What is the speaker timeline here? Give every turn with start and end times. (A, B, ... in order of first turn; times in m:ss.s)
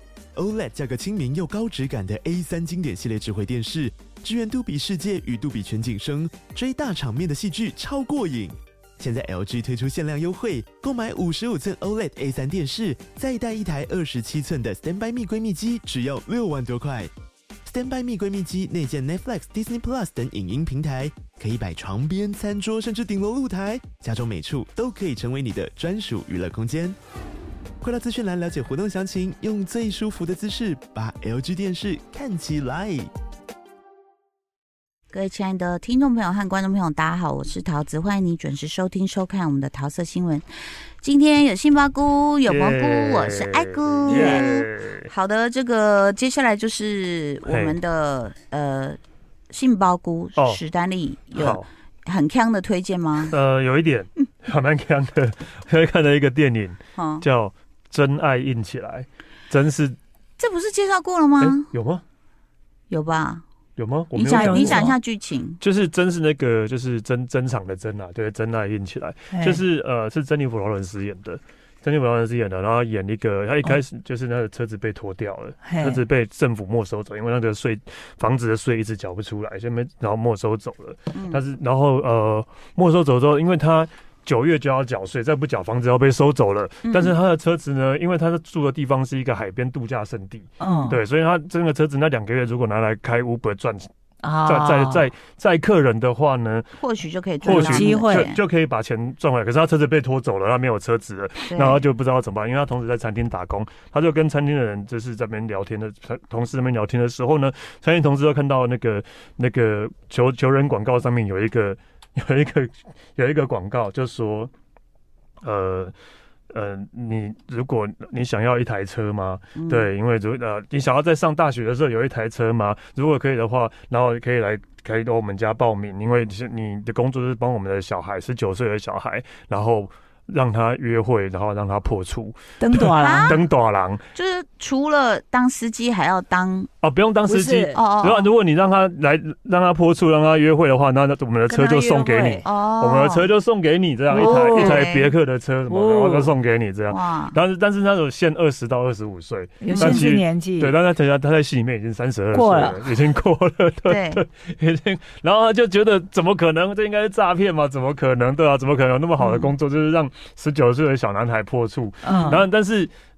0:00.4-0:17.1 A
0:17.6-0:27.0 A
0:27.8-0:33.1 A
0:35.1-0:40.4 B
0:41.0-0:49.0 B
0:42.5-0:45.1 C
0:47.4-0:47.8 C
0:49.5-0:53.4 B
0:50.4-0:50.6 C
0:51.3-0:51.6 C
0:53.3-1:00.0 C
0:57.0-0:57.2 B
1:00.4-1:01.7 B
1:01.4-1:02.0 C
1:02.9-1:03.4 B
1:03.8-1:04.9 C
1:04.1-1:05.6 B
1:04.3-1:05.0 D
1:05.6-1:33.9 C
1:09.3-1:09.6 D
1:15.6-1:16.0 D
1:21.1-1:21.4 B
1:26.8-1:27.2 B
1:30.6-1:31.0 D
1:34.2-1:35.1 D
1:34.4-1:36.7 C
1:36.8-1:38.4 B
1:37.4-1:54.5 C
1:37.5-1:38.3 D
1:41.5-1:41.8 B
1:55.4-1:55.9 C
1:56.5-2:14.0 C
1:59.6-1:59.9 B
2:12.6-2:13.4 D
2:13.0-2:13.4 B
2:14.1-2:16.7 B
2:16.8-2:42.9 C
2:17.2-2:17.8 D
2:17.7-2:18.3 B
2:21.5-2:22.4 D
2:22.4-2:23.3 B
2:24.1-2:25.1 B
2:24.1-2:24.9 D
2:25.7-2:26.3 D
2:26.9-2:27.4 B
2:29.6-2:30.7 D
2:29.7-2:30.1 B
2:32.3-2:32.8 D
2:33.9-2:34.2 B
2:39.2-2:39.5 B
2:42.0-2:42.4 D